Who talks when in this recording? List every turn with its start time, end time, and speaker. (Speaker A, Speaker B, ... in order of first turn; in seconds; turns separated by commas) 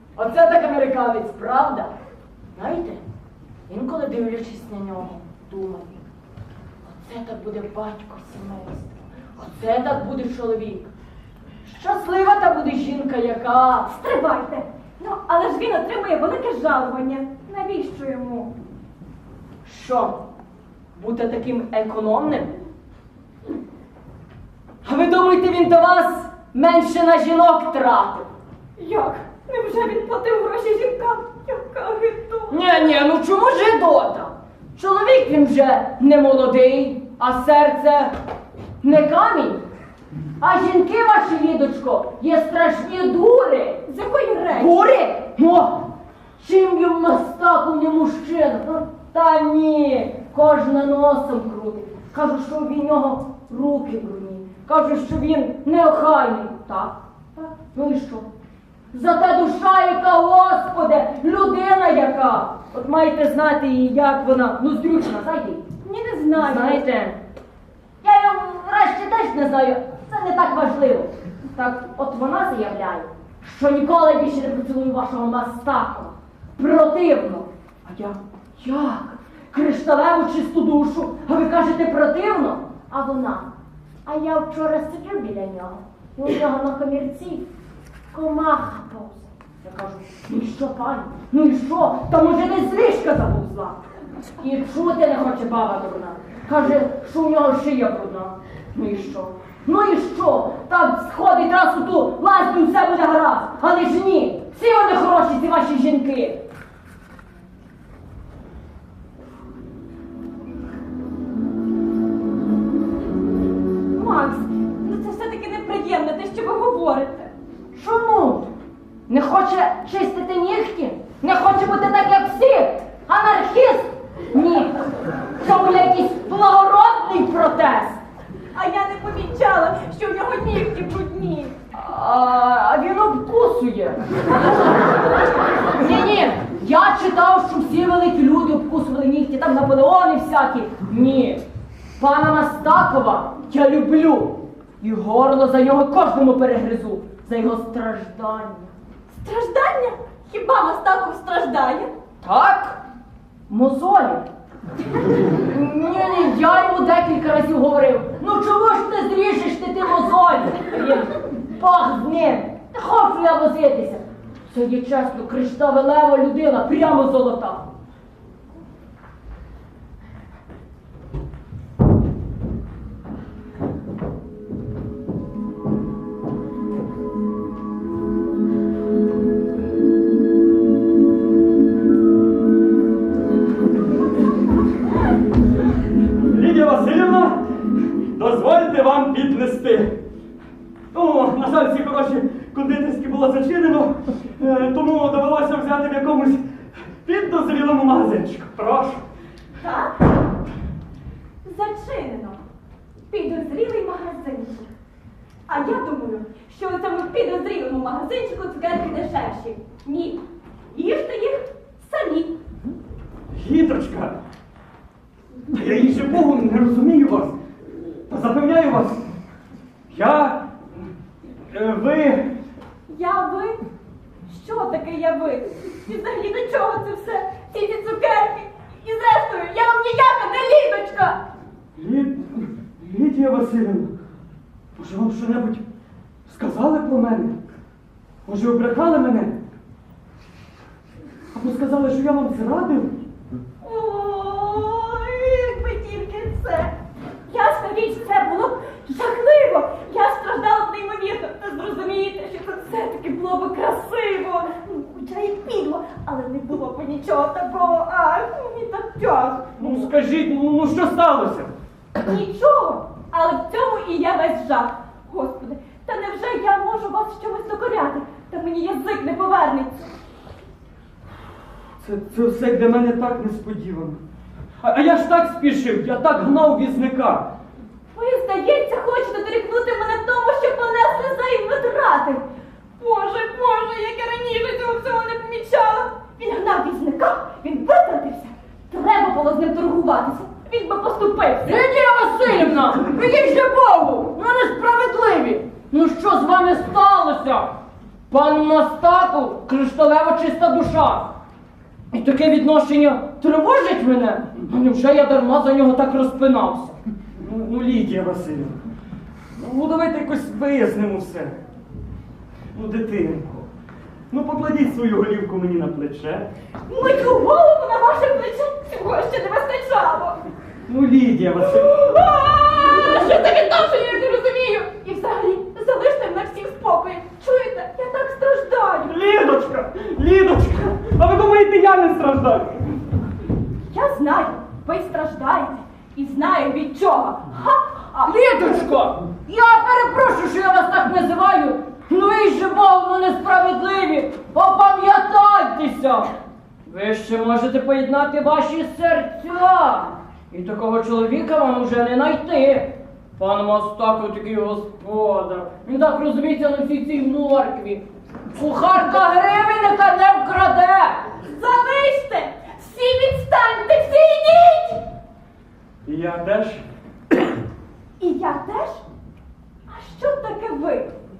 Speaker A: 0.1-1.9, Speaker A: 2.5-3.0, Speaker A: 3.7-6.0, Speaker A: 6.8-10.9, Speaker A: 11.6-13.9, Speaker B: 13.9-18.5, Speaker A: 19.6-20.2, Speaker A: 20.9-22.6, Speaker A: 24.8-28.3, Speaker B: 28.8-32.6, Speaker A: 32.5-38.1, Speaker A: 38.8-39.6, Speaker A: 40.4-43.8, Speaker B: 43.9-44.9, Speaker A: 44.5-58.3, Speaker A: 58.9-65.6, Speaker B: 65.8-66.8, Speaker A: 66.4-67.2, Speaker A: 68.0-83.5, Speaker A: 84.0-87.5, Speaker A: 88.1-93.8, Speaker A: 94.4-106.4, Speaker B: 113.9-117.3, Speaker A: 117.7-118.5, Speaker A: 119.1-124.8, Speaker A: 125.4-128.0, Speaker B: 128.5-131.5, Speaker A: 131.7-134.1, Speaker A: 135.8-141.4, Speaker A: 142.0-148.7, Speaker B: 149.1-151.9, Speaker A: 152.2-152.8, Speaker A: 153.5-154.2, Speaker A: 155.2-167.7, Speaker C: 186.2-190.0, Speaker C: 190.9-196.4, Speaker C: 197.0-199.0, Speaker B: 199.6-200.0, Speaker B: 201.4-202.4, Speaker B: 203.1-204.7, Speaker B: 205.5-212.3, Speaker C: 213.3-214.2, Speaker C: 215.5-217.4, Speaker C: 218.1-219.1, Speaker C: 219.9-220.5, Speaker C: 221.5-222.3, Speaker B: 222.9-223.6, Speaker B: 224.2-231.2, Speaker C: 231.8-233.9, Speaker C: 234.8-235.6, Speaker C: 236.3-237.3, Speaker C: 238.2-239.4, Speaker C: 241.3-242.9, Speaker B: 243.6-246.7, Speaker B: 247.3-259.9, Speaker C: 259.6-261.5, Speaker B: 262.0-269.9, Speaker C: 271.8-274.0, Speaker C: 274.6-277.3, Speaker B: 277.9-282.2, Speaker B: 282.8-291.5, Speaker A: 291.4-293.0, Speaker B: 292.7-294.1, Speaker A: 294.0-297.5, Speaker A: 298.1-301.1, Speaker A: 301.9-306.8, Speaker C: 307.2-308.6, Speaker C: 309.4-311.3, Speaker C: 312.5-313.5, Speaker C: 314.1-316.3, Speaker B: 316.7-320.2, Speaker C: 320.7-321.7, Speaker B: 321.4-328.9, Speaker C: 328.9-332.6, Speaker B: 333.7-338.6, Speaker A: 338.0-346.1, Speaker A: 346.6-361.1, Speaker B: 361.2-364.8, Speaker C: 365.8-366.6, Speaker B: 368.0-368.8, Speaker B: 369.7-370.9